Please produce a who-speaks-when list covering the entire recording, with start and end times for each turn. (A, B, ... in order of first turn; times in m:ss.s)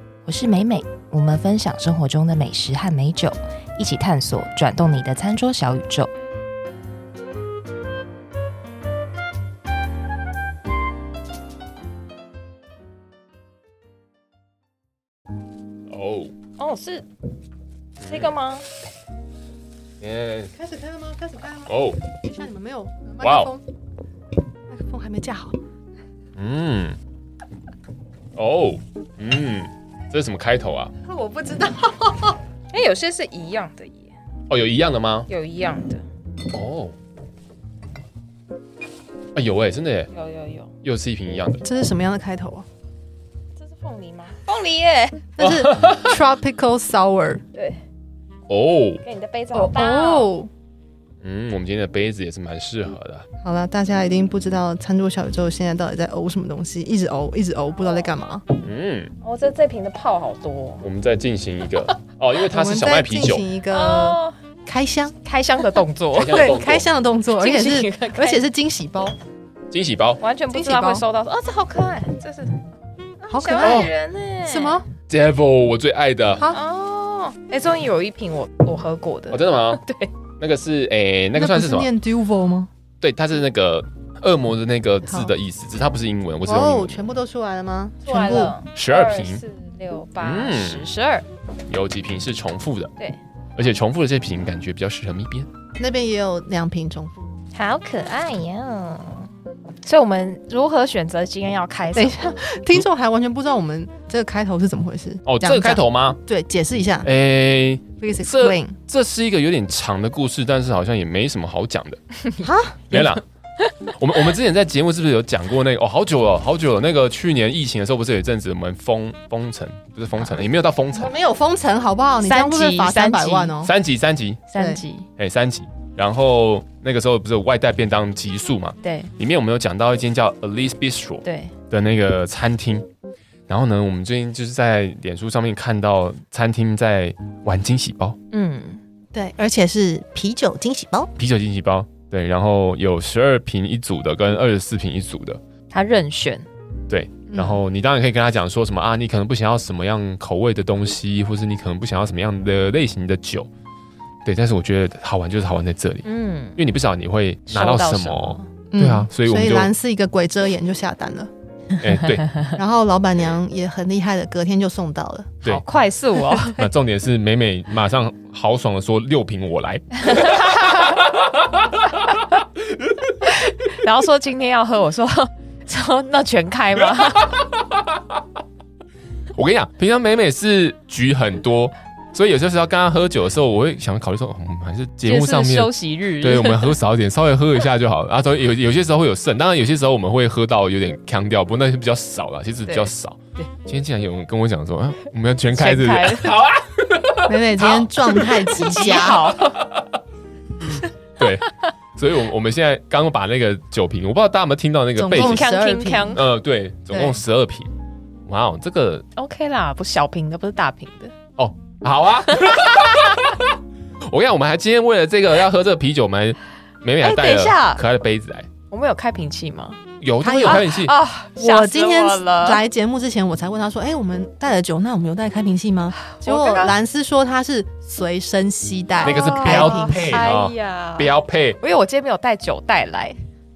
0:00.2-0:06.1 A
0:15.9-0:16.3 B
0:16.6-0:17.0 A
0:18.0-0:18.3 B
0:18.0-0:18.7 A
0:20.0-0:20.5 B
0:20.5-0:23.6 C
0:21.7-0:22.0 B
0:23.2-0:23.5 B
0:24.7-0:25.6 C
0:26.4-0:27.0 B
0:28.4-0:30.9 B
0:31.0-0:32.4 C
0:32.7-0:34.1 A
0:34.5-0:35.3 B
0:35.3-0:36.0 A
0:36.5-0:36.9 B
0:39.3-0:40.1 B
0:40.1-0:40.7 A
0:40.8-0:41.6 B
0:41.6-0:42.6 C
0:43.6-0:45.3 A
0:45.4-0:47.4 C
0:45.4-0:46.2 B
0:47.5-0:47.8 A
0:48.5-0:49.0 B
0:49.0-0:50.3 A
0:49.5-0:50.5 C
0:51.2-0:53.2 B
0:53.4-0:58.4 C
0:58.6-0:59.1 B
0:59.2-1:00.8 A
1:00.8-1:03.4 B
1:02.5-1:05.1 C
1:03.7-1:04.3 A
1:05.2-1:06.5 A
1:06.1-1:06.9 B
1:06.3-1:09.2 C
1:07.4-1:08.4 A
1:09.7-1:10.2 B
1:10.2-1:12.6 A
1:10.5-1:11.0 C
1:13.2-1:14.8 A
1:13.3-1:13.9 C
1:13.6-1:13.9 B
1:14.4-1:14.9 C
1:15.1-1:16.5 B
1:16.5-1:20.1 A
1:19.3-1:19.8 B
1:20.4-1:21.9 B
1:21.3-1:22.7 C
1:23.0-1:27.1 B
1:25.0-1:25.3 C
1:26.4-1:28.6 C
1:28.0-1:31.2 A
1:28.6-1:29.4 B
1:30.2-1:30.9 B
1:31.7-1:32.9 B
1:33.6-1:35.5 B
1:35.8-1:37.2 C
1:37.5-1:39.3 A
1:39.8-1:42.4 A
1:41.9-1:47.1 C
1:45.2-1:46.2 B
1:47.0-1:52.0 B
1:48.0-1:48.8 C
1:52.4-1:53.0 C
1:52.9-1:53.2 B
1:54.0-2:01.1 B
2:00.9-2:03.7 C
2:02.2-2:03.6 A
2:03.6-2:04.4 B
2:04.5-2:05.1 A
2:04.6-2:04.8 C
2:05.2-2:12.9 B
2:08.8-2:09.1 A
2:11.2-2:11.5 A
2:13.5-2:18.2 B
2:18.3-2:18.8 A
2:19.1-2:21.1 C
2:21.2-2:25.4 B
2:25.7-2:26.5 A
2:26.9-2:33.5 B
2:27.3-2:27.6 C
2:34.2-2:36.0 B
2:36.0-2:36.6 A
2:36.6-2:39.7 B
2:37.5-2:38.5 A
2:38.7-2:41.3 C
2:41.8-2:42.3 B
2:42.5-2:45.4 C
2:45.4-2:46.6 A
2:46.4-2:52.8 B
2:50.1-2:50.9 A
2:53.2-2:57.4 A
2:57.0-2:58.0 B
2:59.3-3:18.4 B
3:05.0-3:06.8 A
3:12.7-3:13.5 A
3:15.5-3:16.4 A
3:17.2-3:19.3 C
3:18.1-3:19.5 A
3:19.4-3:19.9 B
3:20.6-3:25.4 B
3:25.0-3:26.2 C
3:25.1-3:26.2 A
3:26.1-3:27.7 B
3:26.9-3:27.2 C
3:28.3-3:29.0 B
3:29.1-3:31.1 A
3:31.4-3:33.6 B
3:32.3-3:33.3 A
3:34.1-3:38.5 B
3:37.0-3:37.8 A
3:38.7-3:39.8 A
3:40.0-3:40.9 B
3:40.2-3:40.7 C
3:40.4-3:42.6 A
3:41.4-3:50.2 C
3:46.0-3:46.7 A
3:49.0-3:51.6 B
3:49.0-3:53.2 A